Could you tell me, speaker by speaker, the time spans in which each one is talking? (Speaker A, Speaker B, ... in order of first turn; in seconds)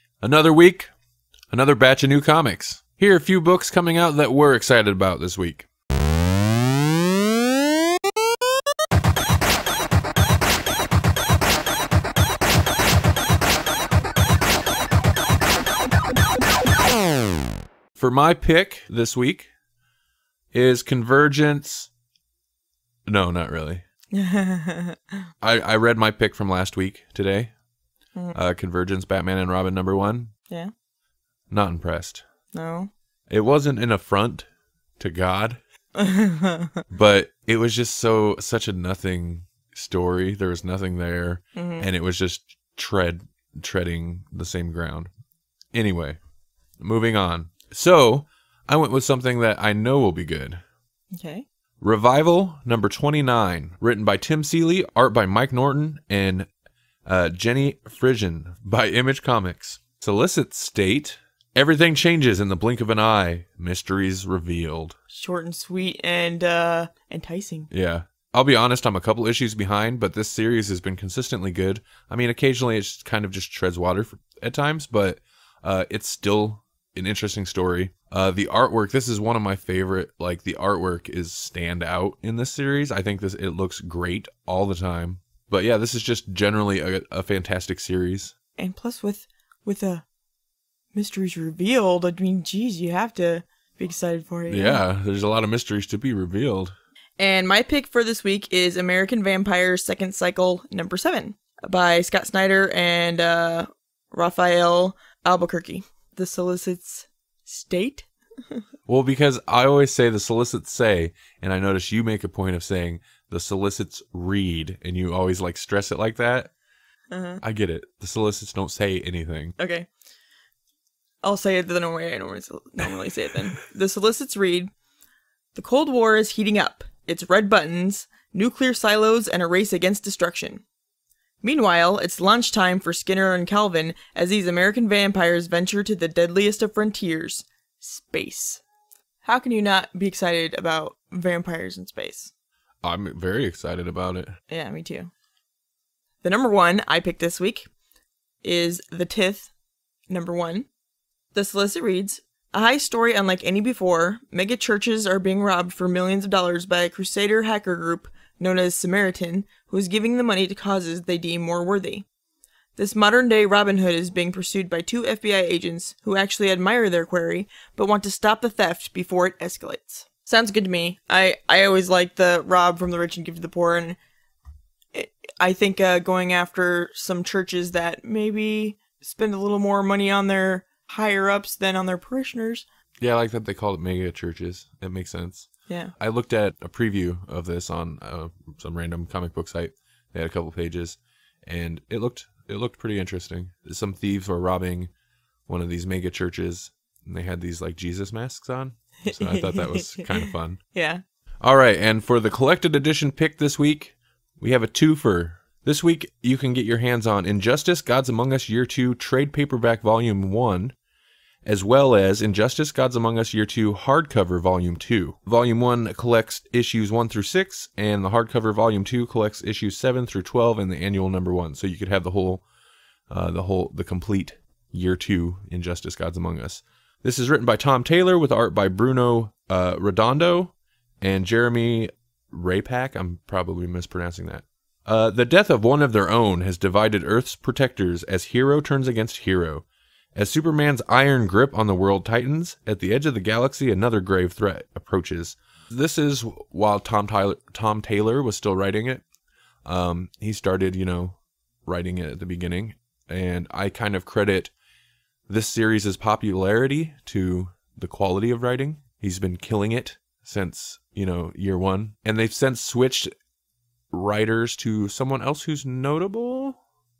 Speaker A: 0.2-0.9, 1.5-5.7, 17.9-19.5, 20.5-21.9, 23.1-23.8, 25.4-27.5, 28.3-30.3, 31.5-32.2, 33.3-34.5, 35.0-35.6, 36.9-45.1, 45.7-46.2, 46.8-50.6, 51.8-56.5, 57.0-65.0, 67.7-88.3, 94.5-96.7, 108.9-116.5, 117.4-119.5, 142.8-144.4, 183.0-194.9, 195.5-200.6, 201.4-210.8, 211.4-222.4, 223.1-249.0, 249.7-254.5, 255.3-263.1, 263.9-266.6
Speaker B: 24.1-25.0, 32.5-32.9, 36.0-36.7, 41.5-41.9, 51.2-51.5, 65.1-67.7, 88.6-90.0, 90.9-94.8, 97.2-108.6, 117.1-117.4, 119.6-119.9, 121.2-124.7, 125.5-130.6, 131.4-138.6, 139.2-142.3, 144.5-145.1, 146.2-147.7, 148.4-149.5, 150.1-150.7, 151.3-162.1, 162.8-174.0, 174.9-182.7, 199.1-201.0